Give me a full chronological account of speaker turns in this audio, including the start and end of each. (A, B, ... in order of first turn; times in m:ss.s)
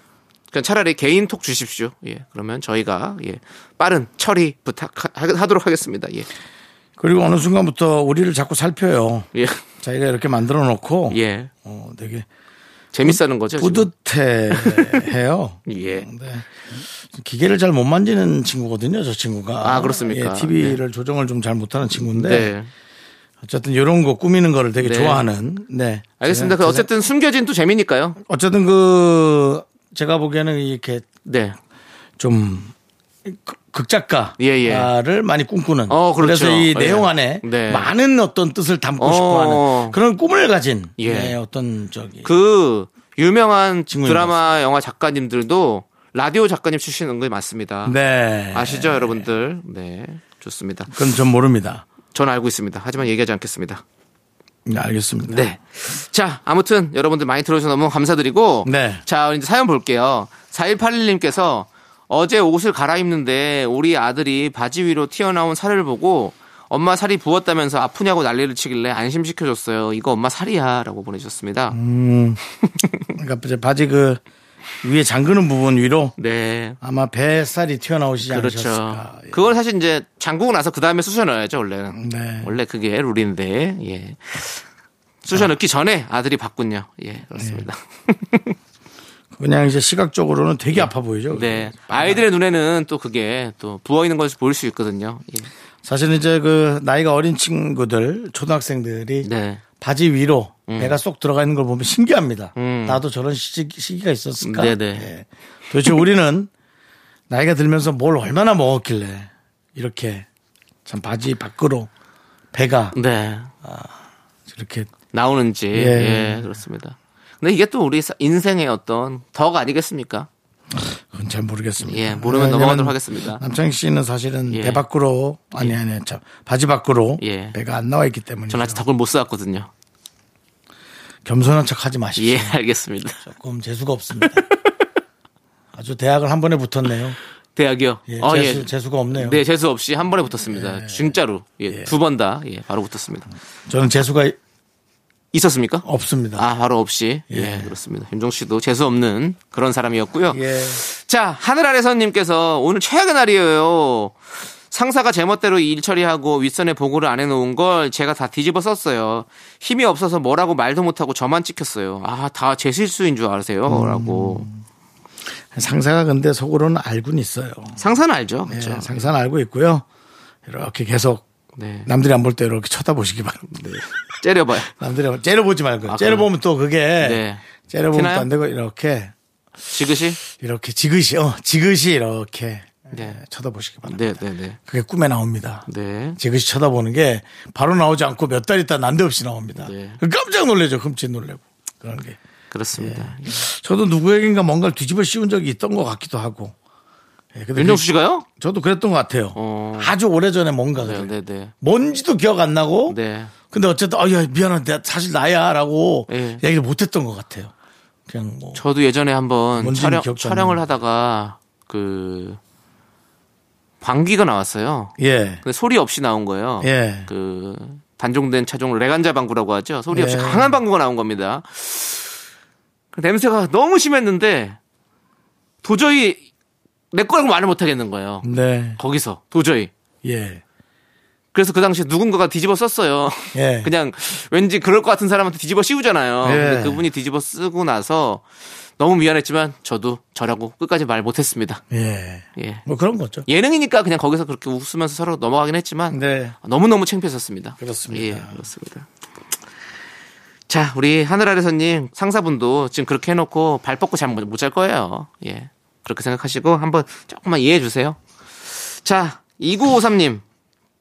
0:00.5-0:06.3 A
0:07.0-0:12.3 B
0:09.3-0:09.6 A
0:11.1-0:11.5 A
0:12.9-0:13.9 A
0:13.0-0:22.5 B
0:14.5-0:15.1 A
0:15.7-0:16.1 A
0:19.6-0:20.8 A
0:22.1-0:22.7 A
0:23.4-0:26.9 B
0:24.8-0:25.2 A
0:26.2-0:28.2 A
0:28.2-0:31.0 B
0:31.2-0:31.6 A
0:32.2-0:32.7 B
0:33.2-0:42.3 B
0:34.4-0:34.9 A
0:35.9-0:37.9 A
0:39.0-0:40.0 A
0:41.0-0:41.4 A
0:42.2-0:48.0 A
0:43.9-0:44.4 B
0:47.8-0:49.2 B
0:48.5-0:50.9 A
0:50.9-0:51.8 B
0:52.1-0:53.8 A
0:54.6-0:55.5 B
0:55.3-1:11.8 A
0:58.6-0:59.0 B
1:11.7-1:12.4 B
1:12.8-1:13.1 A
1:13.1-1:14.2 B
1:14.8-1:16.1 B
1:16.2-1:16.8 A
1:16.8-1:19.4 B
1:18.3-1:24.6 A
1:21.9-1:22.5 B
1:25.2-1:28.6 A
1:27.3-1:27.6 B
1:29.3-1:32.2 B
1:30.7-1:35.5 A
1:35.8-1:39.3 B
1:39.2-1:39.6 A
1:39.8-1:46.5 B
1:40.7-1:41.0 A
1:42.6-1:43.0 A
1:44.4-1:45.1 A
1:47.3-1:50.2 B
1:50.8-1:51.9 B
1:52.5-1:52.9 B
1:52.9-1:53.5 A
1:53.6-1:53.9 B
1:54.5-1:54.9 B
1:55.1-2:00.3 A
1:55.7-1:56.6 B
2:00.8-2:08.8 B
2:01.8-2:03.4 A
2:04.5-2:04.8 A
2:07.2-2:07.6 A
2:08.5-2:09.7 A
2:11.2-2:12.6 B
2:12.2-2:13.2 A
2:13.2-2:14.4 B
2:14.2-2:14.5 A
2:15.7-2:17.2 B
2:17.6-2:23.3 A
2:18.1-2:19.4 B
2:20.5-2:21.2 B
2:23.7-2:24.4 B
2:25.3-2:25.8 A
2:25.8-2:26.5 B
2:26.4-2:34.2 A
2:27.3-2:27.7 B
2:30.3-2:30.8 B
2:34.7-2:44.5 A
2:43.7-2:44.6 B
2:45.5-2:47.8 B
2:47.8-2:49.1 A
2:48.5-2:49.8 B
2:50.4-2:51.2 B
2:51.6-2:51.9 A
2:51.8-2:59.1 B
2:54.2-2:54.7 A
2:55.9-2:56.3 A
2:57.0-2:58.3 A
2:59.7-3:00.2 A
3:00.3-3:05.6 B
3:02.9-3:03.2 A
3:03.9-3:04.6 A
3:05.7-3:06.2 A
3:06.2-3:12.2 B
3:09.6-3:10.0 A
3:12.5-3:13.4 A
3:12.8-3:16.5 B
3:17.3-3:23.0 B
3:17.5-3:18.2 A
3:19.3-3:19.9 A
3:20.8-3:21.5 A
3:22.9-3:23.3 A
3:23.5-3:27.5 B
3:26.1-3:26.4 A
3:28.1-3:28.6 B
3:28.5-3:32.4 A
3:29.6-3:30.6 B
3:33.8-3:42.1 A
3:35.0-3:35.4 B
3:36.6-3:37.1 B
3:39.9-3:40.6 B
3:42.9-3:44.6 A
3:45.6-3:46.2 A
3:46.9-3:48.2 A
3:48.2-3:48.8 B
3:48.8-3:49.7 A
3:50.0-3:50.4 B
3:51.3-3:58.2 A
3:53.3-3:53.7 B
3:56.2-3:56.8 B
3:58.8-4:01.6 A
4:01.7-4:03.2 B
4:02.4-4:02.6 A
4:03.3-4:08.8 A
4:05.9-4:06.3 B
4:07.6-4:08.4 B
4:10.5-4:20.2 A